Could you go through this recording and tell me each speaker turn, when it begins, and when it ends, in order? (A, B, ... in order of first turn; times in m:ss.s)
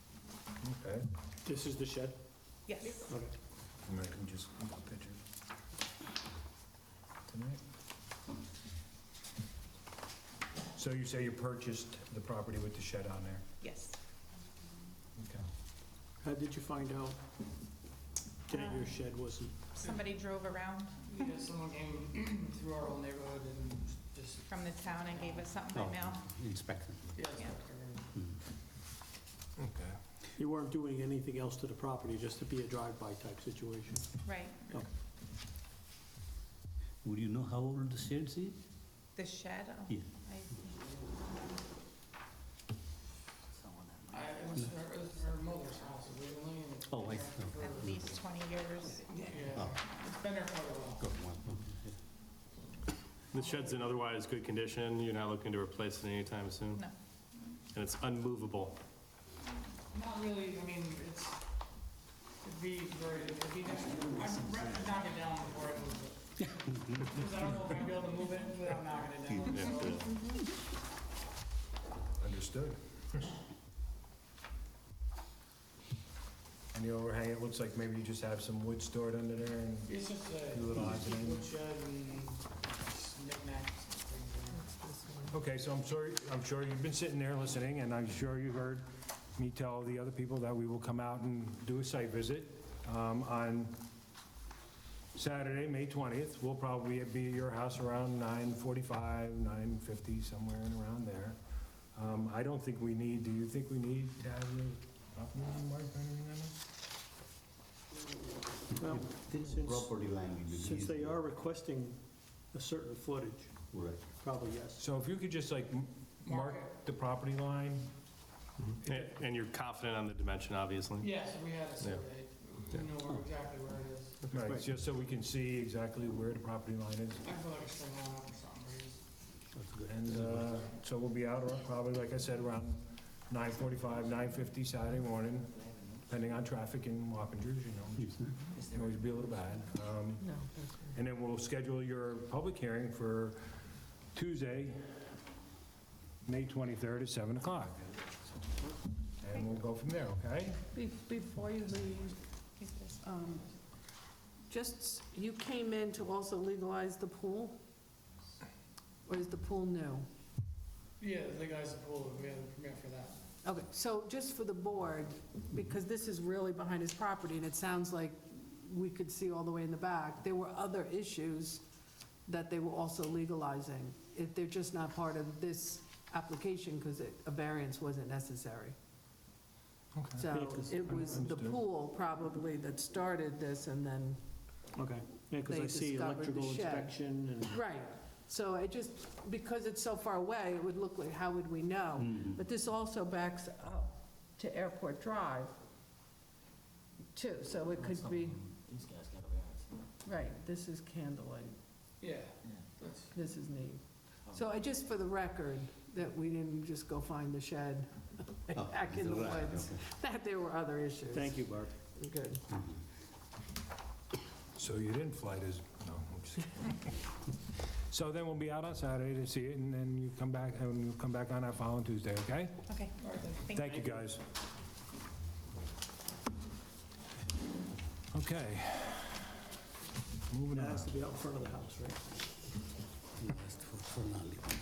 0:00.6-0:01.0 A
0:01.4-0:02.2 B
0:02.6-0:03.2 C
0:03.0-0:03.3 B
0:03.8-0:05.2 A
0:07.3-0:07.6 A
0:10.7-0:13.4 A
0:13.6-0:14.0 C
0:15.2-0:15.4 A
0:16.2-0:17.2 B
0:18.5-0:19.5 B
0:18.5-0:19.0 C
0:19.7-0:21.4 C
0:19.8-0:20.1 D
0:21.1-0:25.6 D
0:24.4-0:26.2 C
0:25.7-0:27.1 E
0:27.1-0:28.1 D
0:29.6-0:30.0 A
0:30.4-0:34.1 B
0:34.2-0:34.7 C
0:37.0-0:38.6 E
0:39.2-0:40.9 C
0:44.1-0:47.9 D
0:46.9-0:48.2 E
0:47.6-0:49.3 C
0:49.1-0:51.2 D
0:51.0-0:51.9 E
0:53.3-0:56.8 F
0:53.3-0:54.0 D
0:57.7-0:58.8 F
0:59.9-1:01.4 D
1:02.4-1:10.1 D
1:09.5-1:10.0 F
1:12.2-1:13.3 A
1:16.7-1:20.0 A
1:19.9-1:24.7 D
1:20.5-1:21.5 A
1:24.6-1:25.4 G
1:25.3-1:33.8 A
1:35.1-1:41.4 A
1:41.9-1:46.6 A
1:48.8-1:49.9 B
1:49.2-1:51.1 E
1:50.6-1:54.8 B
1:54.8-1:57.9 A
1:56.2-1:56.7 D
1:58.6-2:01.1 F
2:01.0-2:04.3 D
2:01.8-2:02.0 F
2:04.3-2:07.2 A
2:04.4-2:04.7 B
2:07.2-2:09.1 D
2:09.8-2:20.3 A
2:20.2-2:20.9 G
2:20.9-2:23.4 A
2:24.1-2:25.1 A
2:26.2-2:27.8 A
2:29.2-2:30.6 A
2:30.7-2:32.2 G
2:32.6-2:33.0 C
2:33.0-2:33.5 G
2:34.5-2:37.6 G
2:39.0-2:40.1 G
2:41.0-2:43.2 D
2:43.4-2:51.6 G
2:52.3-2:58.8 G
2:59.9-3:01.6 A
3:00.2-3:04.2 G
3:00.3-3:00.9 B
3:04.8-3:07.6 B
3:05.4-3:15.5 G
3:17.1-3:18.5 G
3:18.9-3:19.2 E
3:20.0-3:21.6 G
3:22.0-3:23.1 D
3:23.1-3:32.4 G
3:31.1-3:31.7 B
3:34.6-3:37.0 A
3:37.9-3:42.6 A
3:42.7-3:43.8 C
3:43.0-3:43.8 D
3:43.5-3:44.2 A
3:48.1-3:49.3 A
3:50.3-3:50.9 A
3:50.5-3:52.0 B
3:53.2-3:54.4 E